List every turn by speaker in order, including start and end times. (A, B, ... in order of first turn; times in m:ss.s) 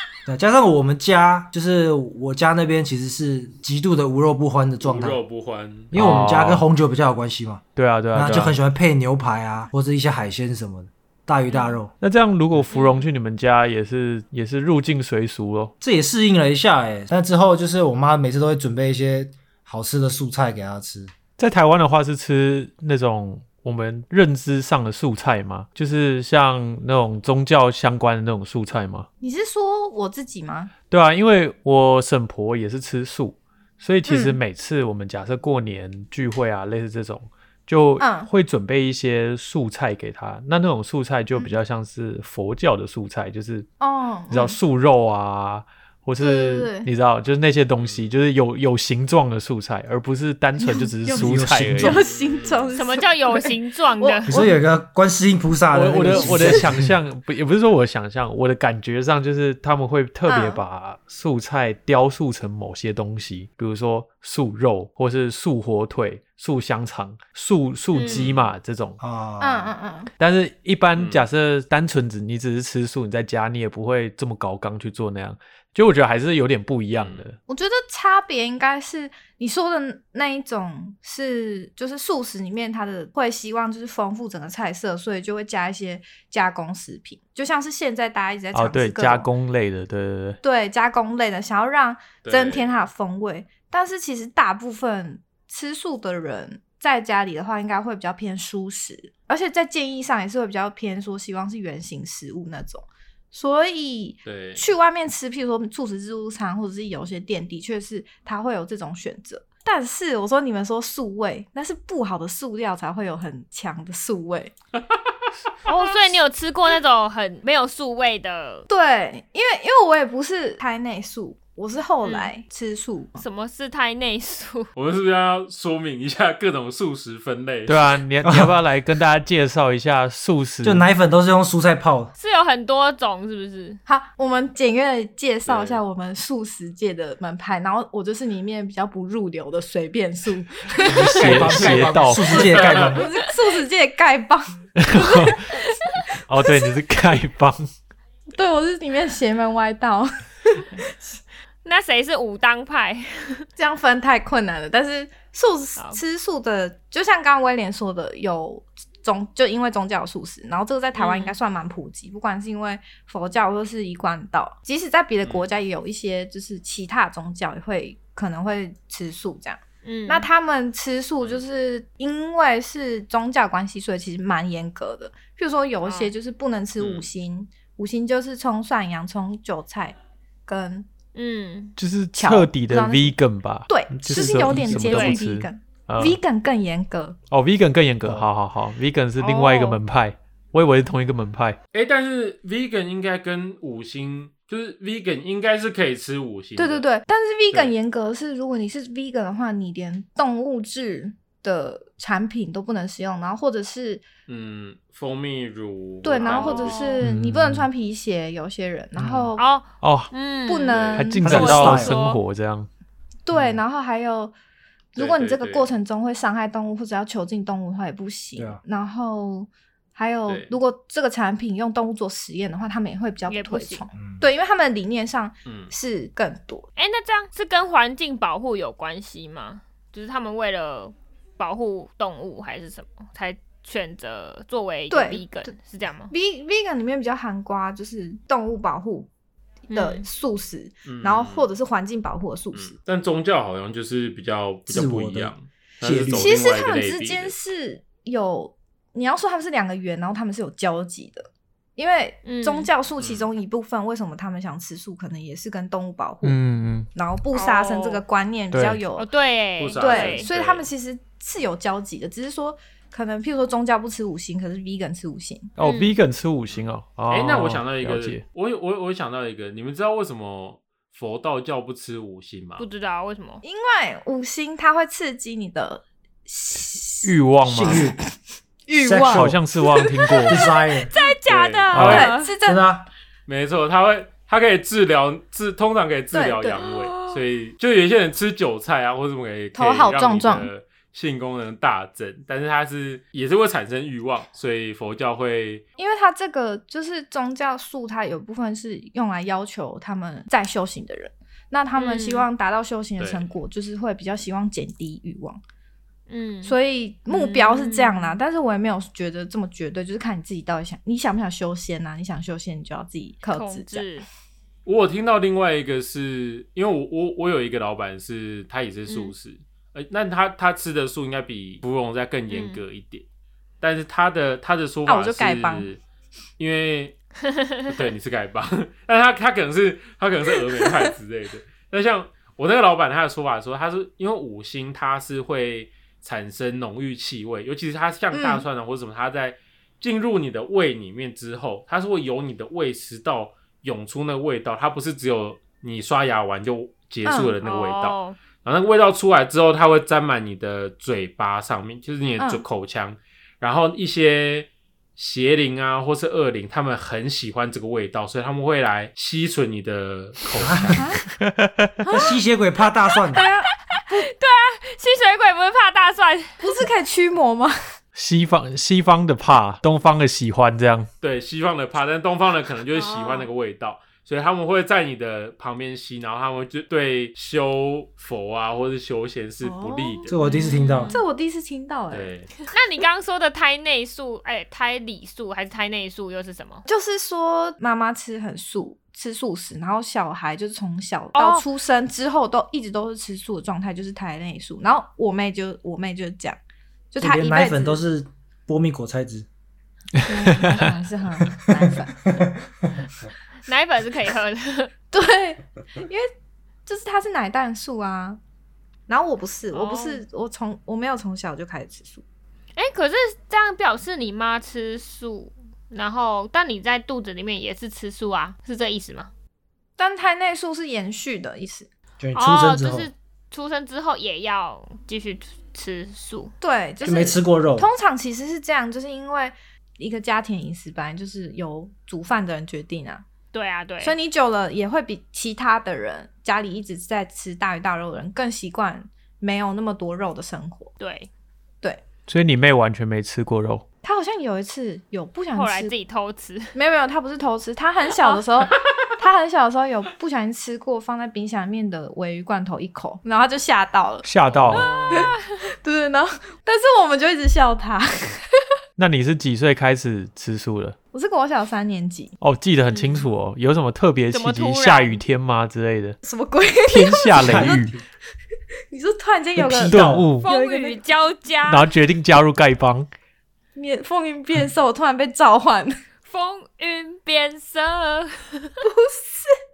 0:00.3-0:05.2 A
0:04.8-0:05.9 B
0:05.9-0:07.6 A
0:05.9-0:06.6 C
0:07.8-0:08.6 C
0:08.1-0:11.9 A
0:12.0-0:15.7 C
0:12.7-0:13.0 D
0:15.8-0:21.1 A
0:21.4-0:29.1 C
0:29.2-0:30.7 E
0:30.9-0:43.7 C
0:34.1-0:34.4 E
0:38.0-0:38.3 E
0:43.8-0:44.6 E
0:44.3-0:52.0 C
0:46.2-0:46.9 E
0:47.8-0:48.1 B
0:50.6-0:54.6 E
0:51.1-0:52.0 A
0:51.8-0:52.7 B
0:52.8-0:54.3 D
0:54.3-0:57.0 A
0:55.7-1:09.0 C
0:56.1-0:56.6 E
1:00.3-1:00.6 E
1:07.9-1:08.3 D
1:08.0-1:08.5 B
1:09.0-1:09.8 A
1:09.4-1:10.1 E
1:10.2-1:17.4 C
1:10.9-1:11.3 B
1:16.9-1:17.2 B
1:17.5-1:29.3 E
1:28.5-1:30.4 C
1:30.4-1:54.5 E
1:32.2-1:32.8 B
1:44.2-1:44.6 B
1:55.7-1:58.7 D
1:58.7-2:03.2 E
2:02.0-2:02.3 D
2:03.2-2:04.7 D
2:04.8-2:07.9 B
2:07.7-2:10.9 C
2:08.2-2:08.6 A
2:10.6-2:12.1 A
2:12.2-2:13.8 D
2:13.9-2:25.6 E
2:15.5-2:15.8 B
2:20.8-2:23.0 A
2:20.9-2:22.5 C
2:22.4-2:23.0 B
2:24.8-2:25.5 C
2:26.3-2:27.7 C
2:26.4-2:26.7 E
2:28.3-2:31.2 E
2:31.6-2:33.5 D
2:33.6-3:00.9 E
2:41.0-2:41.4 D
2:45.2-2:45.5 B
2:49.8-2:50.3 D
2:55.8-2:56.1 D
2:56.8-2:57.1 B
3:01.2-3:01.8 D
3:01.8-3:06.2 C
3:02.2-3:03.2 E
3:03.7-3:07.2 E
3:04.2-3:04.8 A
3:04.7-3:05.2 D
3:07.3-3:11.6 C
3:09.2-3:09.8 D
3:11.7-3:16.8 B
3:16.6-3:24.0 E
3:24.3-3:27.0 B
3:26.0-3:29.4 E
3:26.2-3:27.0 D
3:27.0-3:27.7 C
3:29.0-3:29.3 A
3:29.4-3:32.2 D
3:29.8-3:30.1 C
3:30.5-3:31.5 E
3:30.7-3:31.0 B
3:31.0-3:32.7 C
3:31.2-3:32.0 A
3:33.3-3:34.3 E
3:33.3-3:33.6 A
3:35.0-3:46.7 E
3:35.0-3:35.7 B
3:40.3-3:40.6 B
3:43.3-3:43.8 D
3:44.0-3:44.2 A
3:45.5-3:45.7 B
3:46.8-3:56.1 D
3:54.9-3:55.2 E
3:56.1-3:59.1 E
3:59.7-4:00.1 D
3:59.7-4:02.7 E
4:00.8-4:01.5 B
4:02.5-4:07.4 B
4:04.7-4:06.4 A
4:06.1-4:16.4 E
4:12.2-4:12.7 D
4:13.0-4:13.3 B
4:16.2-4:16.9 C
4:16.9-4:19.1 E
4:17.3-4:18.0 D
4:18.5-4:18.8 C
4:19.0-4:20.3 D
4:19.6-4:20.7 B
4:19.8-4:25.5 E
4:25.6-4:28.2 C
4:25.6-4:26.0 D
4:27.1-4:32.6 B
4:32.6-4:33.4 D
4:33.4-4:37.9 E
4:37.0-4:37.9 C
4:37.5-4:38.0 A
4:38.7-4:40.6 E
4:38.7-4:39.4 A
4:39.0-4:40.4 C
4:40.3-4:40.9 A
4:40.9-4:42.3 D
4:41.3-4:42.1 B
4:41.7-4:42.1 C
4:41.8-4:42.6 E
4:42.4-4:42.9 A
4:43.3-4:55.6 B
4:46.1-4:46.9 E
4:49.6-4:50.5 E
4:55.8-5:05.4 E
5:01.7-5:02.3 D
5:03.0-5:03.3 B
5:06.1-5:06.6 D
5:06.4-5:13.9 E
5:07.1-5:08.2 D
5:13.3-5:14.1 D
5:14.7-5:23.0 B
5:18.9-5:19.1 D
5:22.3-5:22.6 D
5:23.6-5:25.8 B
5:24.9-5:25.7 E
5:26.4-5:27.0 B
5:27.3-5:27.7 D
5:27.7-6:00.9 B
5:38.1-5:38.4 E
5:47.0-5:47.4 E
5:47.4-5:48.2 D
6:00.4-6:00.8 A
6:00.8-6:01.0 E
6:01.1-6:01.8 C
6:01.9-6:02.2 E
6:01.9-6:03.2 A
6:03.1-6:04.0 E
6:03.7-6:06.4 D
6:06.4-6:07.5 E
6:08.0-6:10.9 C
6:11.0-6:20.2 B
6:12.7-6:13.3 E
6:19.4-6:22.2 E
6:20.1-6:21.0 A
6:20.2-6:21.0 D
6:21.9-6:22.3 B
6:22.5-6:26.6 D
6:26.7-6:36.4 E
6:31.2-6:31.5 D
6:36.9-6:37.8 E
6:37.0-6:39.3 A
6:39.9-6:40.7 C
6:40.1-6:42.2 E
6:43.5-6:44.7 D
6:44.9-6:46.1 E
6:46.7-6:48.2 E
6:48.9-6:52.0 E
6:49.5-6:50.0 D
6:52.6-6:59.1 D
6:59.8-7:01.7 E
7:02.0-7:02.9 A
7:02.2-7:06.3 D
7:06.4-7:13.0 E
7:06.8-7:07.7 A
7:13.3-7:14.0 D
7:13.8-7:20.7 E
7:20.8-7:21.1 D
7:22.1-7:23.6 C
7:23.8-7:25.7 E
7:25.3-7:26.5 D
7:26.5-7:34.1 E
7:34.0-7:34.8 C
7:34.5-7:35.2 D
7:34.5-7:35.1 B
7:34.9-7:38.2 E
7:38.8-7:40.8 C
7:40.9-7:42.2 E
7:42.2-7:46.0 C
7:42.7-7:43.1 D
7:44.1-7:45.0 D
7:46.0-7:47.7 E
7:46.7-7:47.7 C
7:47.2-7:47.8 A
7:48.7-7:50.8 E
7:49.4-7:50.1 A
7:49.7-7:50.3 C
7:50.2-7:51.7 D
7:51.5-7:52.9 C
7:53.6-7:55.8 E
7:56.0-7:58.6 D
7:58.6-7:59.3 E